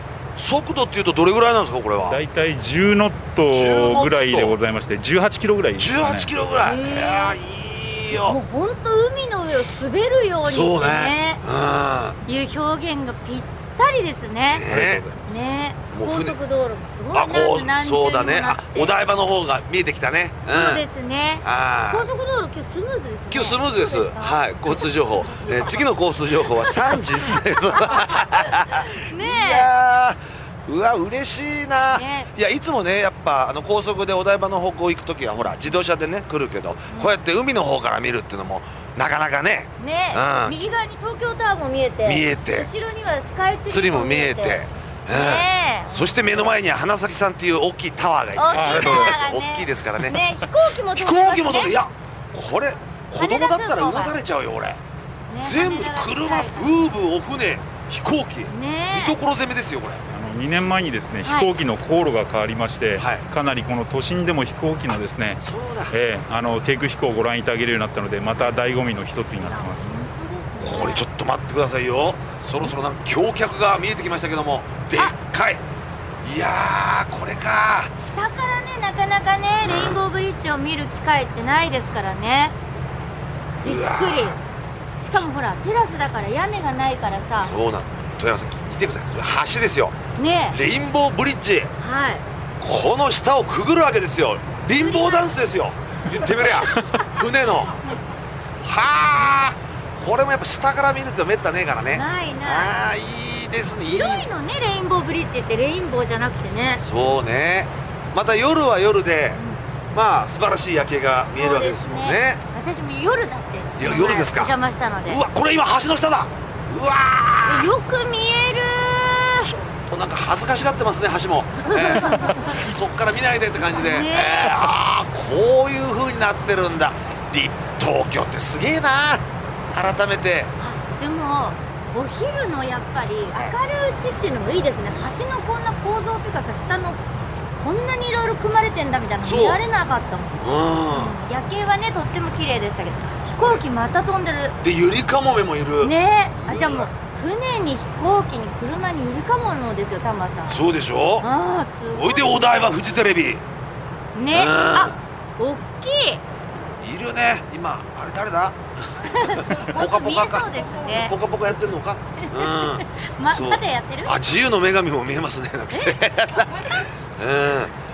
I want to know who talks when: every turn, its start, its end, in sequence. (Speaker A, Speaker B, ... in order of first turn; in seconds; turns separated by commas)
Speaker A: 0.4-2.2, Speaker B: 2.1-6.3, Speaker A: 3.5-4.6, Speaker A: 5.8-8.4, Speaker C: 6.6-7.4, Speaker C: 8.1-11.4, Speaker A: 10.4-12.2, Speaker C: 12.2-14.7, Speaker A: 14.5-15.0, Speaker B: 14.7-15.5, Speaker C: 15.3-19.0, Speaker A: 15.9-16.4, Speaker A: 17.1-20.9, Speaker C: 20.5-25.8, Speaker A: 21.4-22.1, Speaker A: 23.3-40.6, Speaker C: 26.6-27.0, Speaker C: 27.7-29.7, Speaker C: 31.9-32.3, Speaker C: 36.9-37.2, Speaker C: 39.8-46.3, Speaker A: 42.0-42.7, Speaker A: 43.7-50.2, Speaker C: 48.4-51.8, Speaker B: 48.5-49.2, Speaker A: 50.9-54.8, Speaker C: 53.2-54.2, Speaker C: 55.3-56.8, Speaker A: 55.4-60.1, Speaker C: 58.5-59.2, Speaker B: 60.1-69.9, Speaker C: 61.2-61.5, Speaker A: 63.0-63.3, Speaker A: 65.4-66.0, Speaker C: 69.4-71.1, Speaker A: 70.6-75.6, Speaker A: 76.2-77.9, Speaker C: 78.0-82.5, Speaker A: 79.6-80.0, Speaker C: 83.6-84.4, Speaker A: 83.6-84.4, Speaker C: 85.0-87.5, Speaker A: 87.4-90.0, Speaker C: 90.2-90.6, Speaker A: 90.5-91.7, Speaker C: 91.8-92.2, Speaker A: 92.6-97.8, Speaker C: 94.7-95.3, Speaker C: 96.4-97.1, Speaker A: 98.6-104.3, Speaker C: 101.9-102.8, Speaker C: 103.8-106.8, Speaker A: 106.8-109.4, Speaker C: 109.3-109.6, Speaker A: 109.9-112.4, Speaker C: 111.3-115.2, Speaker A: 113.8-117.7, Speaker C: 117.5-119.5, Speaker A: 119.8-130.5, Speaker C: 121.6-122.7, Speaker C: 123.8-124.7, Speaker C: 130.6-137.0, Speaker C: 137.6-140.4, Speaker A: 139.2-139.6, Speaker A: 140.4-141.2, Speaker C: 140.9-144.6, Speaker A: 144.6-146.9, Speaker C: 145.8-150.6, Speaker A: 150.5-151.3, Speaker C: 151.2-152.3, Speaker A: 151.9-153.4, Speaker C: 154.2-156.2, Speaker A: 154.3-155.0, Speaker A: 156.8-167.7, Speaker C: 159.1-161.2, Speaker C: 162.2-164.2, Speaker C: 165.7-166.0